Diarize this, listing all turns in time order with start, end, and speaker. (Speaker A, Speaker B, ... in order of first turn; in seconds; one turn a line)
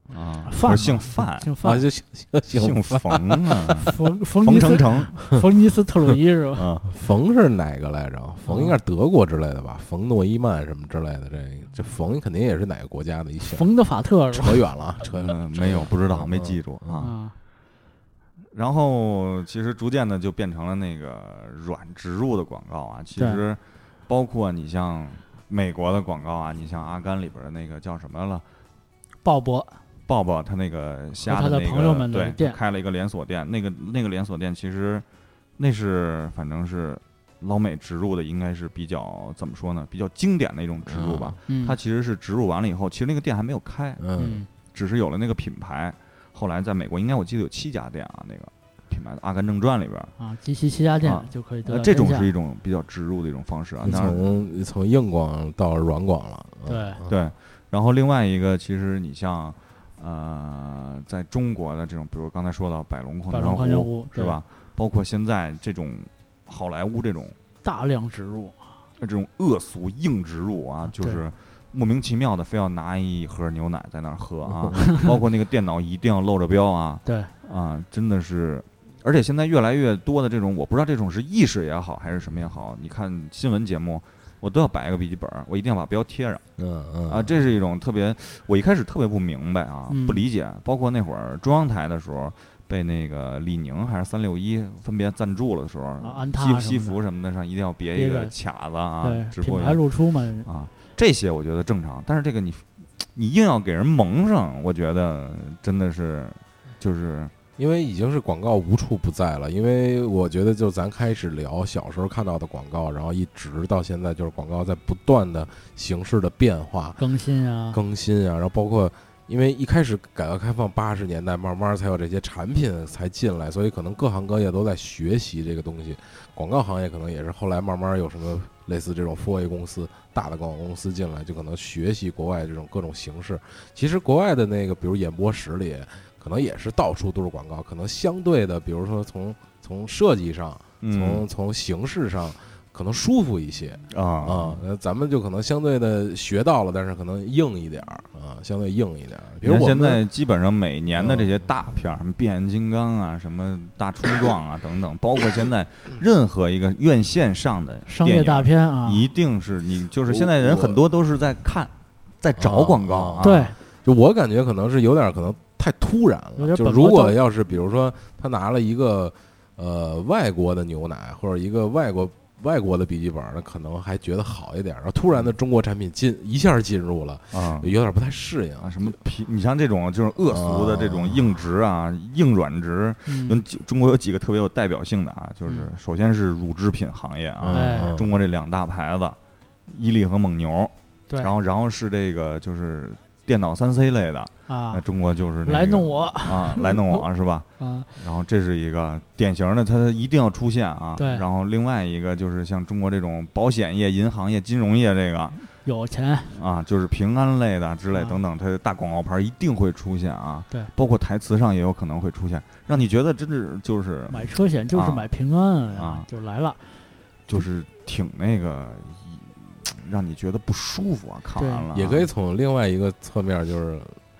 Speaker A: 0.1-1.5
Speaker B: 0.5-1.9
Speaker C: 1.6-3.9
Speaker A: 2.5-5.2
Speaker B: 3.8-6.6
Speaker A: 6.6-6.9
Speaker C: 6.9-13.7
Speaker B: 8.5-8.8
Speaker B: 13.4-14.6
Speaker C: 14.3-17.1
Speaker A: 15.1-17.1
Speaker B: 17.0-17.4
Speaker A: 18.5-28.4
Speaker B: 23.2-23.4
Speaker B: 29.2-29.8
Speaker A: 30.1-35.0
Speaker B: 31.3-32.6
Speaker A: 35.6-44.0
Speaker C: 40.9-41.4
Speaker B: 41.5-41.8
Speaker C: 44.0-44.4
Speaker B: 44.2-44.5
Speaker A: 44.7-50.1
Speaker B: 50.2-52.3
Speaker A: 51.0-54.2
Speaker C: 53.8-57.1
Speaker B: 56.7-57.0
Speaker A: 57.1-67.4
Speaker B: 63.3-64.4
Speaker B: 67.6-68.6
Speaker A: 69.0-86.4
Speaker B: 70.9-71.2
Speaker B: 77.0-77.3
Speaker C: 86.6-87.3
Speaker A: 87.1-99.9
Speaker B: 89.9-90.2
Speaker B: 96.0-97.0
Speaker B: 98.0-98.3
Speaker B: 99.0-100.5
Speaker A: 100.5-107.3
Speaker C: 107.6-117.0
Speaker B: 117.0-117.8
Speaker C: 117.7-150.0
Speaker A: 140.8-141.2
Speaker A: 143.9-144.6
Speaker A: 149.4-163.5
Speaker C: 151.0-151.4
Speaker B: 157.9-159.0
Speaker C: 160.1-160.8
Speaker C: 162.4-163.3
Speaker B: 163.2-163.6
Speaker C: 163.8-179.0
Speaker B: 166.4-167.2
Speaker A: 177.3-177.7
Speaker A: 178.6-205.4
Speaker C: 180.3-181.2
Speaker B: 183.1-183.4
Speaker C: 187.4-188.1
Speaker B: 187.5-187.9
Speaker B: 194.5-194.8
Speaker B: 195.4-197.1
Speaker B: 197.6-197.9
Speaker B: 201.0-201.2
Speaker B: 205.5-206.3
Speaker A: 206.3-215.1
Speaker B: 214.1-216.7
Speaker A: 215.7-216.1
Speaker A: 217.3-222.1
Speaker B: 221.4-221.7
Speaker C: 221.7-224.0